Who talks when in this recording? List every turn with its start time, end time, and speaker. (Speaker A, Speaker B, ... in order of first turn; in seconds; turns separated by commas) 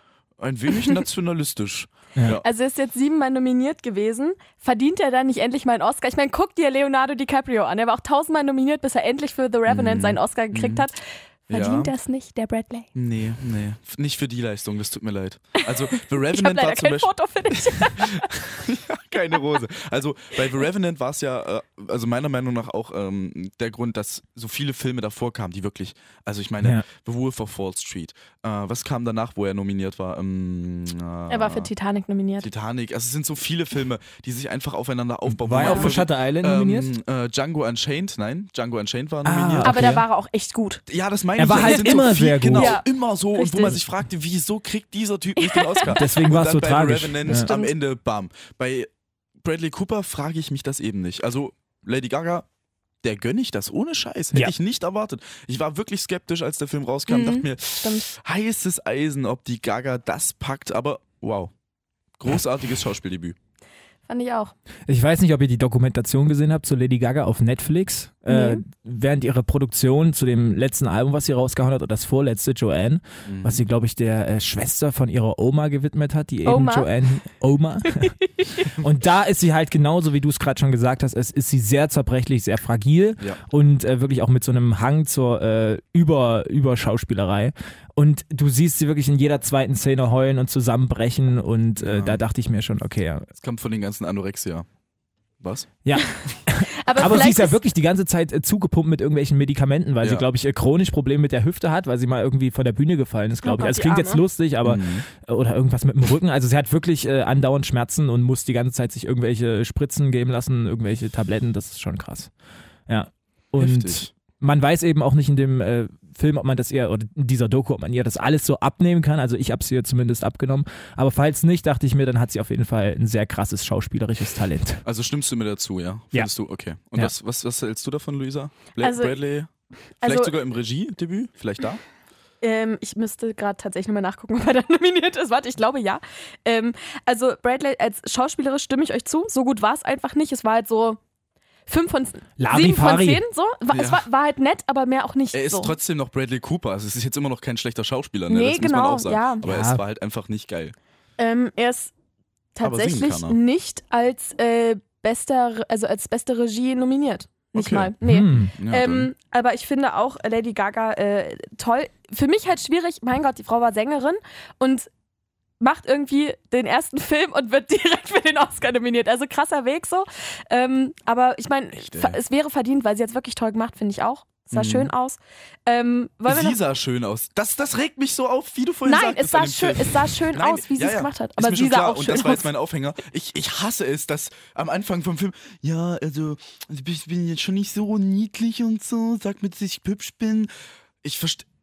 Speaker A: 0.4-2.4, Speaker B: 2.4-12.9, Speaker A: 9.7-10.8, Speaker A: 11.5-11.9, Speaker A: 12.9-31.7, Speaker B: 15.6-18.3, Speaker B: 31.3-32.5, Speaker A: 32.4-40.0, Speaker C: 35.3-36.9, Speaker B: 35.6-35.9, Speaker C: 39.2-40.0, Speaker B: 39.6-40.8, Speaker A: 40.9-48.9, Speaker C: 41.4-42.8, Speaker B: 41.5-42.0, Speaker B: 42.5-43.8, Speaker B: 45.4-46.0, Speaker C: 45.9-47.5, Speaker B: 47.3-47.7, Speaker A: 49.4-52.5, Speaker A: 53.0-61.5, Speaker B: 57.1-58.1, Speaker A: 62.2-63.4, Speaker B: 64.1-64.5, Speaker C: 64.9-93.3, Speaker B: 68.3-68.6, Speaker A: 73.2-73.6, Speaker B: 76.5-76.9, Speaker A: 91.8-92.2, Speaker A: 93.3-94.7, Speaker A: 95.4-95.7, Speaker C: 95.8-112.3, Speaker B: 96.8-97.6, Speaker B: 103.4-104.2, Speaker A: 104.6-105.0, Speaker C: 112.9-124.8, Speaker A: 113.6-114.1, Speaker A: 124.8-129.5, Speaker B: 128.8-129.2, Speaker B: 130.0-130.3, Speaker A: 130.0-131.8, Speaker B: 132.4-141.0, Speaker B: 141.7-145.7, Speaker C: 142.4-143.2, Speaker A: 143.7-144.0, Speaker A: 145.3-150.7, Speaker B: 148.3-149.4, Speaker C: 149.4-149.8, Speaker B: 151.2-151.9, Speaker B: 152.6-164.9, Speaker A: 152.6-153.4, Speaker A: 157.5-157.9, Speaker C: 158.0-158.5, Speaker A: 158.6-159.1, Speaker B: 165.6-176.6, Speaker A: 171.7-172.2, Speaker A: 174.5-174.9, Speaker A: 176.3-190.5, Speaker B: 178.8-182.4, Speaker A: 191.0-191.4